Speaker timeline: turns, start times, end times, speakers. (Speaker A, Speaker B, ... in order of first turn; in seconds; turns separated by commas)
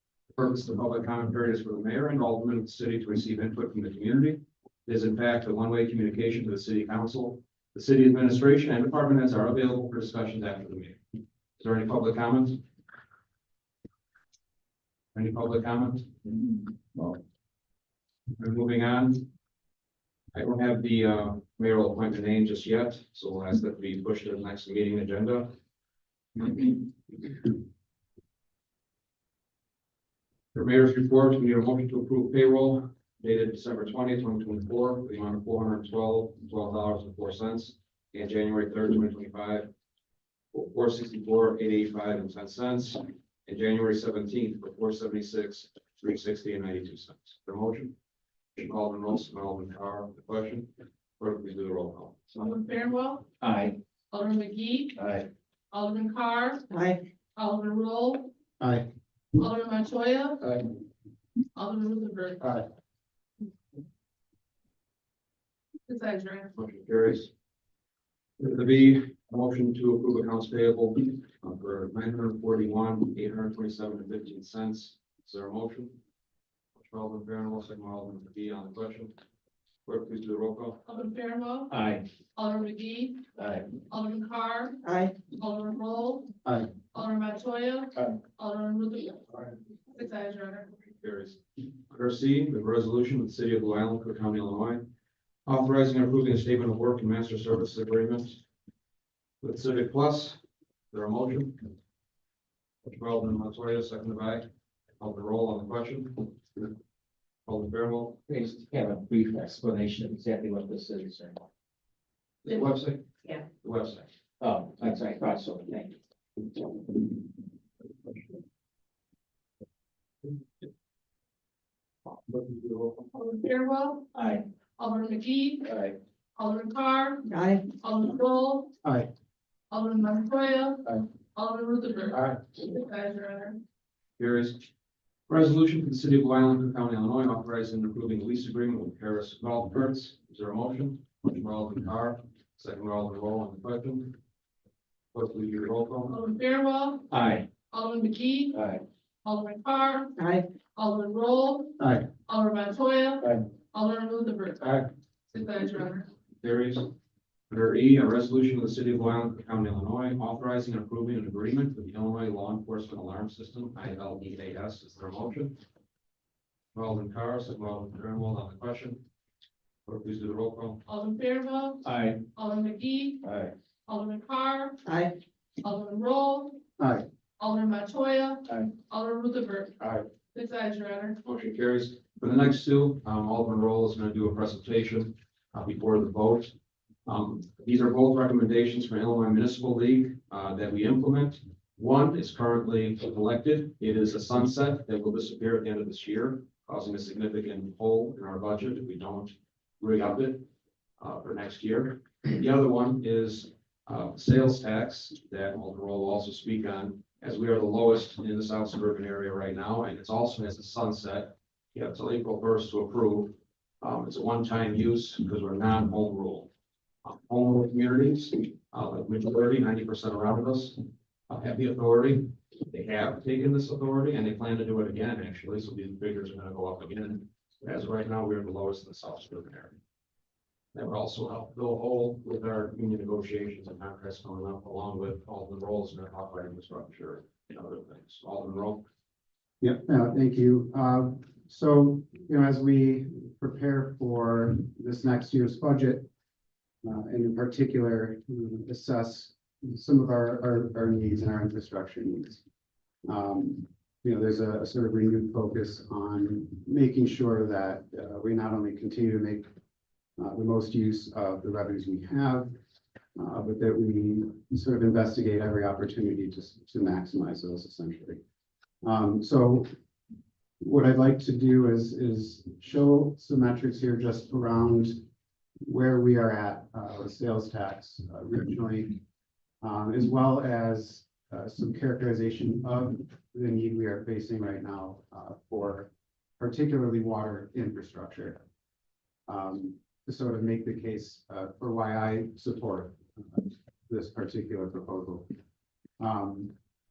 Speaker A: 0.3-11.0, Speaker A: 11.6-12.6, Speaker A: 15.1-16.1, Speaker A: 18.4-19.3, Speaker A: 20.3-25.5, Speaker A: 26.4-26.8, Speaker A: 30.5-39.7, Speaker A: 40.5-48.0, Speaker A: 48.6-52.5, Speaker B: 52.4-53.3, Speaker C: 53.4-53.8, Speaker B: 54.1-55.0, Speaker C: 55.0-55.3, Speaker B: 55.7-56.7, Speaker C: 56.7-57.0, Speaker B: 57.4-58.3, Speaker D: 58.6-58.9, Speaker B: 59.4-60.4, Speaker B: 61.5-62.5, Speaker B: 65.9-66.5, Speaker A: 66.5-67.3, Speaker A: 68.4-76.0, Speaker A: 76.8-79.2, Speaker A: 79.8-80.8, Speaker B: 80.9-81.7, Speaker C: 81.7-82.0, Speaker B: 82.4-83.3, Speaker C: 83.4-83.7, Speaker B: 83.9-86.3, Speaker C: 84.8-85.2, Speaker D: 86.5-86.7, Speaker B: 86.9-89.3, Speaker B: 89.9-90.7, Speaker A: 90.9-94.9, Speaker A: 95.5-98.4, Speaker A: 99.4-100.4, Speaker A: 100.9-101.7, Speaker A: 102.8-104.5, Speaker A: 105.0-106.7, Speaker A: 107.5-108.2, Speaker C: 108.3-111.4, Speaker A: 112.4-114.1, Speaker C: 114.4-116.0, Speaker A: 122.2-123.1, Speaker B: 123.1-124.1, Speaker C: 124.1-124.5, Speaker B: 124.8-125.7, Speaker C: 125.7-126.0, Speaker B: 126.4-128.7, Speaker C: 127.3-127.7, Speaker D: 128.8-129.1, Speaker B: 129.7-133.6, Speaker A: 134.2-134.7, Speaker A: 135.3-144.2, Speaker A: 145.1-146.2, Speaker B: 146.1-147.1, Speaker C: 147.1-147.5, Speaker B: 147.7-148.6, Speaker C: 148.5-148.8, Speaker B: 149.2-150.2, Speaker C: 150.2-150.5, Speaker B: 150.7-156.1, Speaker D: 151.8-152.1, Speaker A: 156.4-156.9, Speaker A: 157.5-165.6, Speaker A: 166.8-169.0, Speaker A: 169.9-170.8, Speaker B: 170.9-173.2, Speaker C: 171.8-172.2, Speaker C: 173.2-173.5, Speaker B: 173.9-174.8, Speaker C: 174.8-175.2, Speaker B: 175.6-176.6, Speaker D: 176.8-177.1, Speaker B: 177.4-181.2, Speaker A: 181.2-186.5, Speaker A: 187.1-200.5, Speaker A: 201.0-216.5, Speaker A: 217.0-229.8, Speaker A: 230.7-238.8, Speaker D: 239.6-246.1, Speaker D: 246.8-252.4, Speaker D: 253.1-259.5, Speaker D: 260.2-262.5, Speaker D: 263.2-268.2, Speaker D: 268.8-269.7, Speaker D: 270.6-275.0, Speaker D: 275.6-279.0, Speaker D: 279.6-288.4, Speaker D: 289.3-295.3, Speaker D: 296.0-296.5